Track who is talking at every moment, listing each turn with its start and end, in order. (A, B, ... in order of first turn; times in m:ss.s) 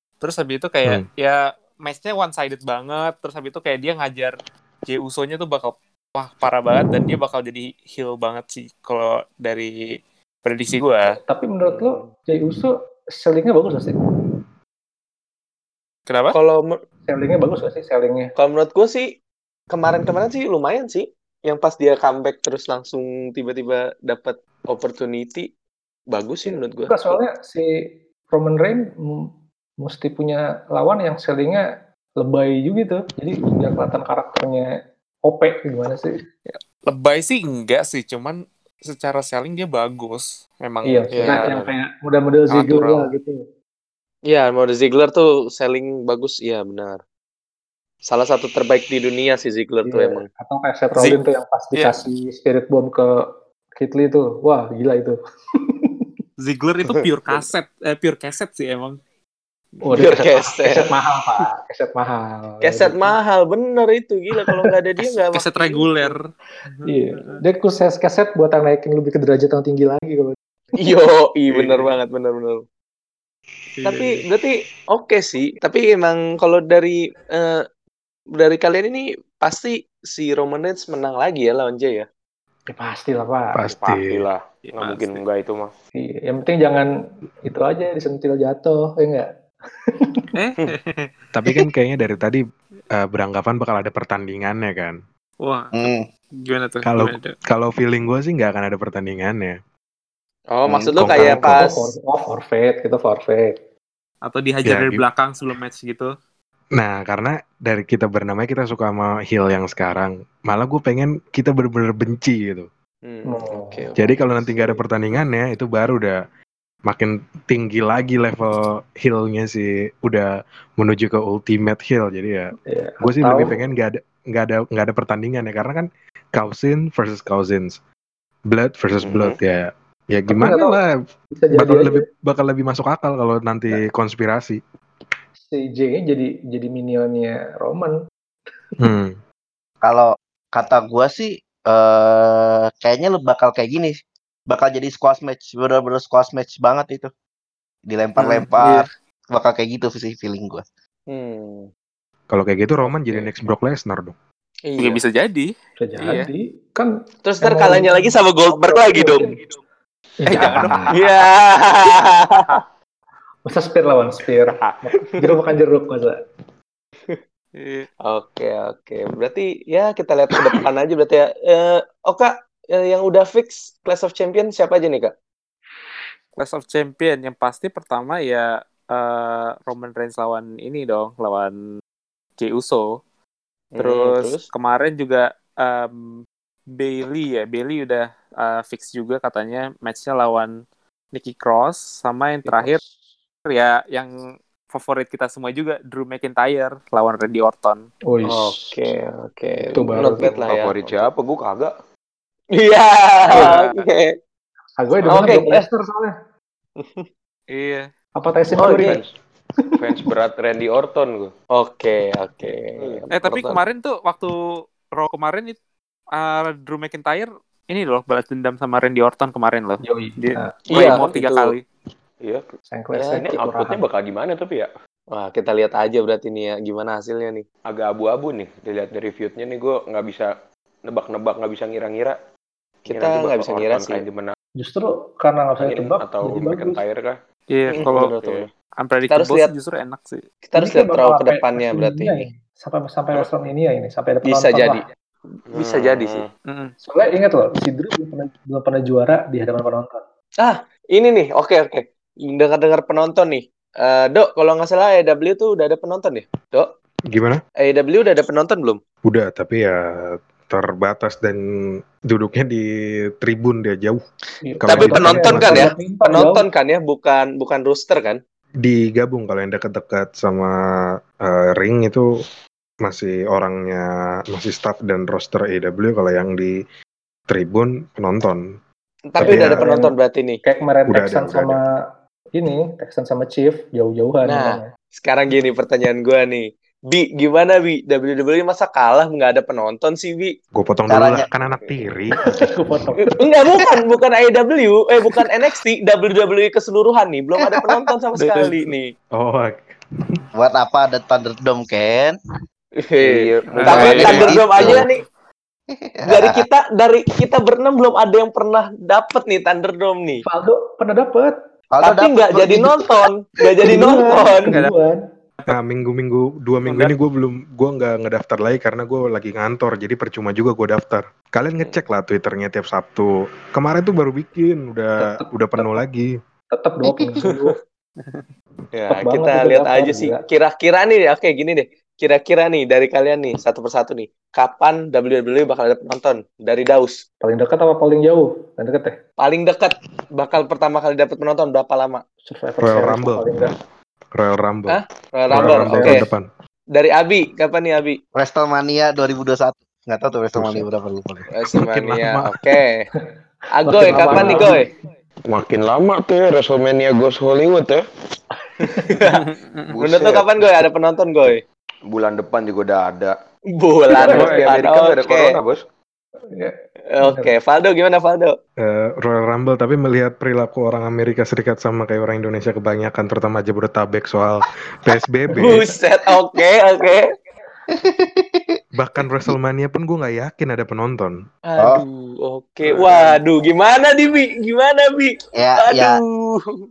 0:00.2-0:09.8 A
0:10.4-0:11.2 A
0:11.3-0:14.0 B
0:16.1-0:16.4 A
0:16.3-0:16.8 C
0:17.1-0:18.3 B
0:18.4-0:19.1 C
0:19.7-0:25.5 C
0:26.1-0:27.2 C
0:26.4-0:27.7 B
0:28.3-0:29.3 B
0:29.8-0:31.7 B
0:32.2-0:34.7 B
0:35.2-0:36.2 B
0:36.5-0:41.7 A
0:40.8-0:43.4 B
0:41.2-0:41.5 C
0:42.5-0:43.1 A
0:44.3-0:47.0 C
0:48.1-0:50.2 C
0:49.8-0:53.2 B
0:51.0-0:51.2 A
0:53.8-0:55.2 B
0:55.7-0:56.0 B
0:56.4-0:59.0 A
0:56.8-0:57.4 D
0:59.8-1:00.2 A
0:59.9-1:03.2 B
0:59.9-1:00.9 C
1:02.6-1:06.2 C
1:04.4-1:04.6 B
1:05.1-1:07.4 A
1:06.9-1:10.4 B
1:10.8-1:12.6 C
1:11.5-1:11.8 D
1:13.8-1:14.2 A
1:13.8-1:17.6 C
1:18.4-1:22.1 C
1:22.7-1:23.6 B
1:23.6-1:24.3 E
1:23.7-1:25.7 D
1:24.6-1:25.2 A
1:26.0-1:26.9 B
1:27.4-1:29.3 B
1:29.9-1:30.2 B
1:30.4-1:31.1 A
1:31.3-1:32.4 E
1:32.9-1:35.0 E
1:35.4-1:37.3 A
1:35.7-1:36.1 F
1:36.8-1:39.6 E
1:40.5-1:41.9 C
1:40.6-1:41.5 F
1:41.0-1:41.6 E
1:41.5-1:43.6 B
1:44.2-1:46.1 A
1:44.7-1:45.0 E
1:46.8-1:52.7 E
1:53.0-1:54.0 C
1:53.3-1:53.9 B
1:54.0-1:56.2 E
1:56.9-2:07.8 E
2:02.7-2:03.6 B
2:08.5-2:10.9 E
2:09.0-2:09.4 D
2:10.3-2:10.8 B
2:11.3-2:12.0 B
2:11.5-2:14.6 E
2:15.5-2:18.0 B
2:18.8-2:19.2 E
2:19.8-2:24.0 F
2:24.5-2:27.1 F
2:27.9-2:30.6 F
2:28.2-2:28.8 A
2:31.1-2:31.7 C
2:32.3-2:34.2 E
2:34.7-2:35.0 C
2:34.8-2:36.3 A
2:35.8-2:36.9 B
2:37.2-2:39.4 C
2:37.4-2:39.4 B
2:40.2-2:41.0 B
2:40.3-2:42.5 C
2:40.3-2:41.3 D
2:43.5-2:46.2 B
2:47.6-2:47.9 A
2:48.0-2:55.1 C
2:56.4-3:01.6 A
3:02.4-3:03.0 A
3:03.7-3:04.5 C
3:03.8-3:06.2 A
3:06.8-3:10.6 A
3:11.1-3:12.8 A
3:12.5-3:13.0 B
3:13.5-3:14.1 A
3:14.7-3:17.9 A
3:18.1-3:18.8 B
3:18.5-3:21.0 C
3:19.6-3:20.5 B
3:20.3-3:21.7 D
3:22.6-3:24.1 C
3:23.3-3:23.8 A
3:24.8-3:26.2 B
3:25.0-3:25.7 C
3:26.8-3:27.1 C
3:27.5-3:27.9 A
3:28.2-3:29.0 B
3:28.6-3:28.9 C
3:28.7-3:29.2 D
3:29.8-3:31.3 D
3:31.5-3:33.6 C
3:32.8-3:33.1 D
3:33.1-3:34.4 A
3:35.0-3:35.6 A
3:36.2-3:41.6 A
3:39.8-3:40.7 B
3:40.7-3:41.6 C
3:40.8-3:41.1 D
3:42.7-3:43.8 B
3:43.0-3:43.3 C
3:43.1-3:44.7 D
3:45.1-3:47.4 C
3:47.7-3:50.3 D
3:50.9-3:52.2 D
3:52.8-3:54.3 D
3:52.9-3:54.0 C
3:54.6-3:56.8 B
3:55.6-3:57.2 D
3:57.5-4:00.2 A
3:57.7-3:58.5 D
3:57.7-3:58.1 C
3:59.1-3:59.5 C
4:00.5-4:02.2 C
4:00.6-4:04.8 B
4:04.2-4:04.9 C
4:05.5-4:06.3 D
4:05.5-4:06.2 C
4:06.4-4:06.7 A
4:06.8-4:10.0 B
4:10.4-4:16.7 C
4:17.1-4:17.4 E
4:17.6-4:18.8 C
4:19.1-4:21.4 E
4:22.1-4:24.0 E
4:24.4-4:26.4 B
4:24.6-4:25.7 E
4:24.7-4:28.2 C
4:28.6-4:32.1 E
4:32.8-4:36.6 E
4:37.3-4:38.6 E
4:39.1-4:40.4 C
4:39.2-4:39.6 E
4:39.2-4:41.7 B
4:40.9-4:41.6 E
4:42.4-4:44.7 B
4:44.2-4:50.3 C
4:50.6-4:52.2 E
4:50.9-4:51.3 F
4:52.2-4:53.2 B
4:53.0-4:58.9 C
4:58.2-4:58.7 A
4:59.1-5:00.2 E
5:00.3-5:02.2 F
5:02.8-5:05.0 C
5:03.0-5:04.8 D
5:03.6-5:04.3 A
5:03.8-5:04.9 F
5:05.7-5:06.4 F
5:06.1-5:10.2 C
5:10.2-5:11.4 B
5:11.7-5:13.1 F
5:11.8-5:14.6 C
5:13.6-5:15.0 B
5:14.5-5:14.8 A
5:15.5-5:26.1 E
5:16.7-5:16.9 A
5:25.0-5:25.8 B
5:26.5-5:27.6 B
5:26.9-5:27.1 F
5:27.2-5:27.5 C
5:28.9-5:30.2 B
5:28.9-5:37.0 C
5:37.2-5:39.0 B
5:39.2-5:42.0 C
5:42.3-5:43.5 B
5:42.6-5:43.3 E
5:44.1-5:46.3 E
5:44.7-5:46.0 C
5:45.4-5:46.0 B
5:46.7-5:48.0 C
5:48.2-5:51.3 F
5:50.4-5:50.6 E
5:51.3-5:52.9 C
5:51.6-5:52.5 E
5:53.6-5:54.7 C
5:53.6-5:54.7 B
5:53.9-5:54.3 D
5:55.3-5:57.8 D
5:59.0-5:59.2 C
5:59.0-5:59.7 A
5:59.7-6:00.5 D
5:59.8-6:01.4 C
6:01.9-6:03.1 D
6:03.6-6:05.4 C
6:03.9-6:05.6 D
6:04.0-6:04.4 B
6:06.4-6:07.4 B
6:06.9-6:08.4 C
6:08.6-6:15.7 E
6:15.4-6:17.1 C
6:17.7-6:18.6 F
6:18.8-6:21.2 E
6:21.5-6:26.6 C
6:25.4-6:26.0 F